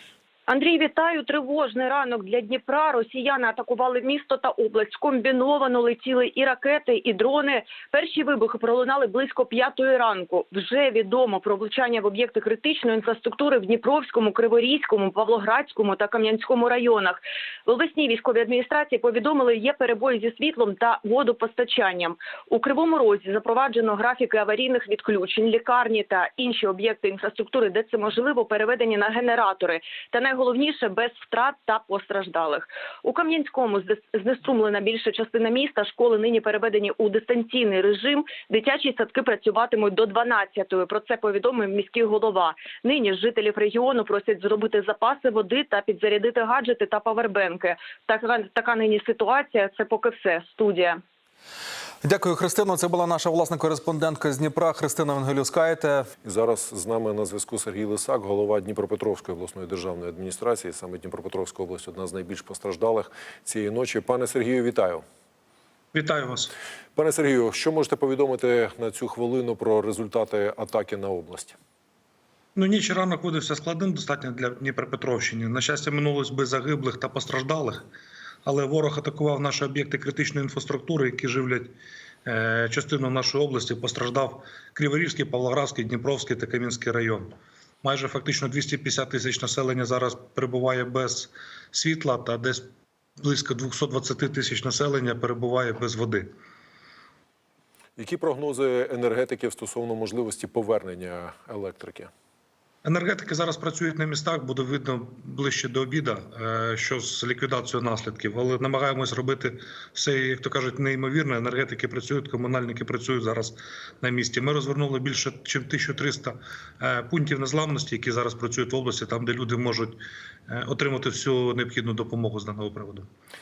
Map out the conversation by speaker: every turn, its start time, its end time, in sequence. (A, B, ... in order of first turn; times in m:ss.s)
0:00.5-0:51.0 A
0:52.0-0:56.1 B
0:56.2-1:05.0 C
1:05.9-1:06.5 D
1:06.9-1:11.6 C
1:12.6-1:17.8 D
1:18.4-1:21.7 D
1:22.2-1:27.3 D
1:27.8-1:32.7 D
1:33.2-1:36.3 D
1:38.0-1:42.1 C
1:42.8-2:03.1 D